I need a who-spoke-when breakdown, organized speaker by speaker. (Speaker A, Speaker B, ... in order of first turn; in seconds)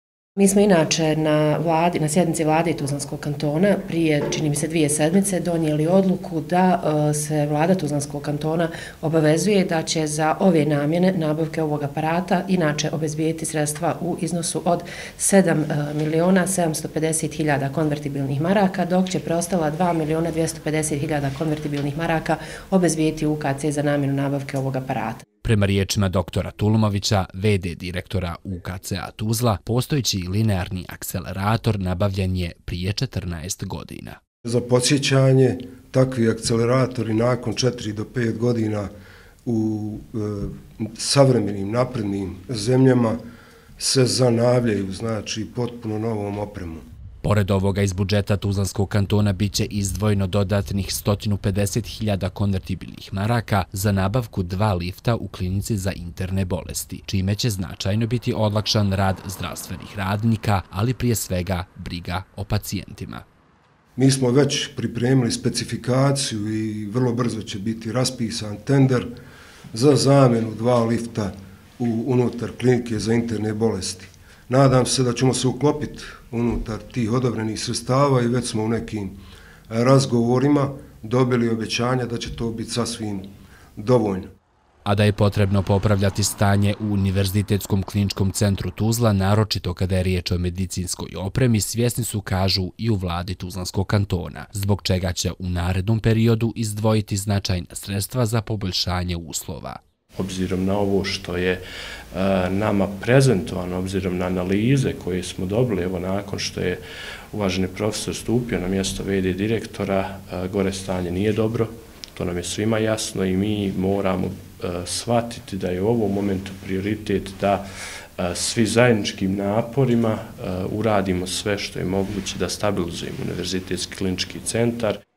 Speaker A: 0.4-25.2
Speaker B: 25.4-34.2, 47.2-63.2, 84.8-99.8
Speaker C: 34.4-38.9, 39.4-43.2, 43.8-46.8, 64.0-69.1, 69.7-79.2, 79.7-84.3
Speaker D: 100.1-101.6, 102.1-106.8, 107.3-117.6, 118.2-125.0